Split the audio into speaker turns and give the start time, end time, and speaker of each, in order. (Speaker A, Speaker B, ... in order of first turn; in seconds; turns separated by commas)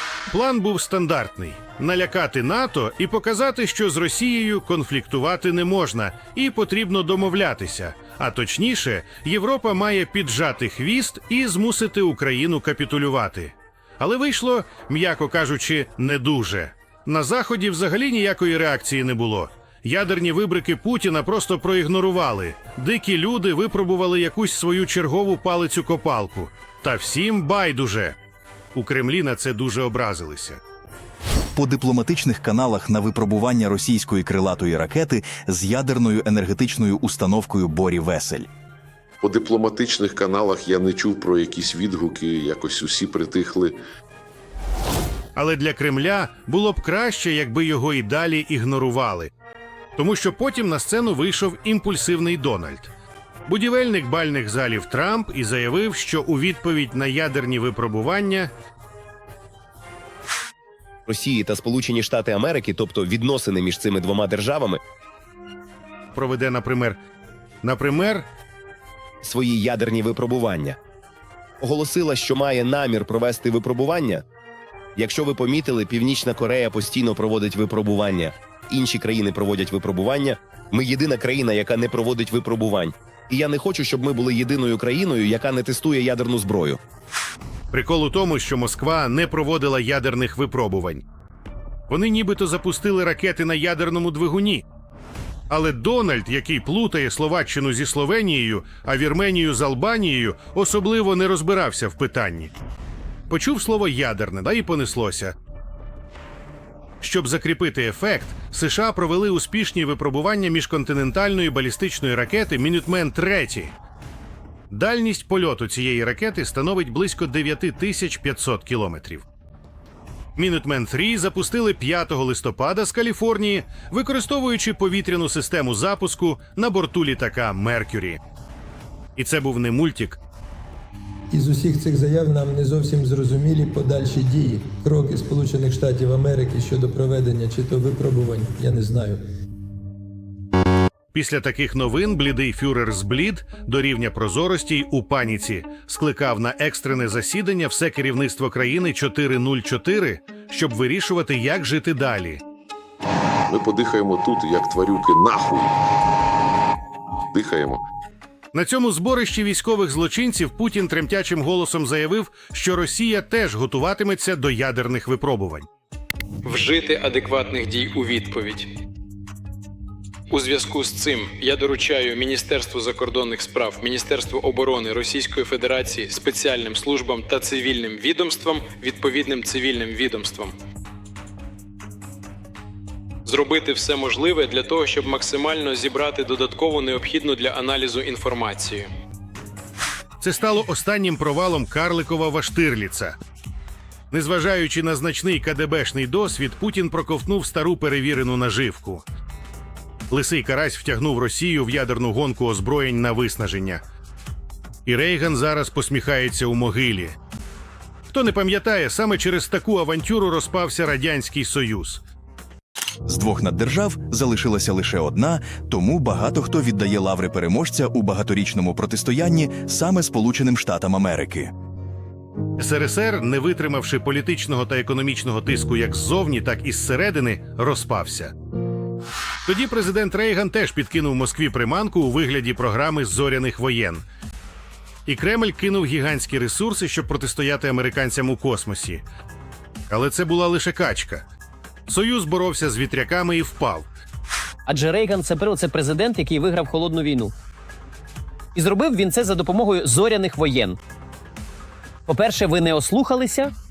Speaker A: 0.3-28.2, Speaker A: 28.7-30.6, Speaker B: 31.5-38.5, Speaker C: 39.2-43.8, Speaker A: 45.4-49.3, Speaker A: 50.0-52.9, Speaker A: 53.5-58.5, Speaker D: 61.1-64.8, Speaker A: 66.1-67.0, Speaker A: 67.6-68.3, Speaker D: 69.2-70.8, Speaker D: 71.6-74.2, Speaker D: 75.0-86.8, Speaker A: 87.7-91.0, Speaker A: 91.9-94.6, Speaker A: 95.5-102.5, Speaker A: 103.3-105.3, Speaker A: 107.0-113.7, Speaker A: 114.7-119.2, Speaker A: 120.3-128.2, Speaker A: 129.2-130.2, Speaker E: 131.3-139.2, Speaker A: 141.1-152.4, Speaker C: 153.5-155.7, Speaker C: 157.3-157.8, Speaker A: 158.5-165.7, Speaker F: 166.4-168.7, Speaker F: 170.3-180.5, Speaker F: 183.2-188.9, Speaker A: 190.2-193.2, Speaker A: 194.1-199.0, Speaker A: 200.1-203.8, Speaker A: 204.8-207.2, Speaker A: 208.1-212.0, Speaker B: 213.1-221.5, Speaker A: 222.6-228.3, Speaker A: 229.4-234.0, Speaker A: 235.1-239.0, Speaker A: 239.9-241.2, Speaker A: 241.9-243.9, Speaker G: 244.7-247.3, Speaker G: 248.5-250.8, Speaker G: 252.1-253.5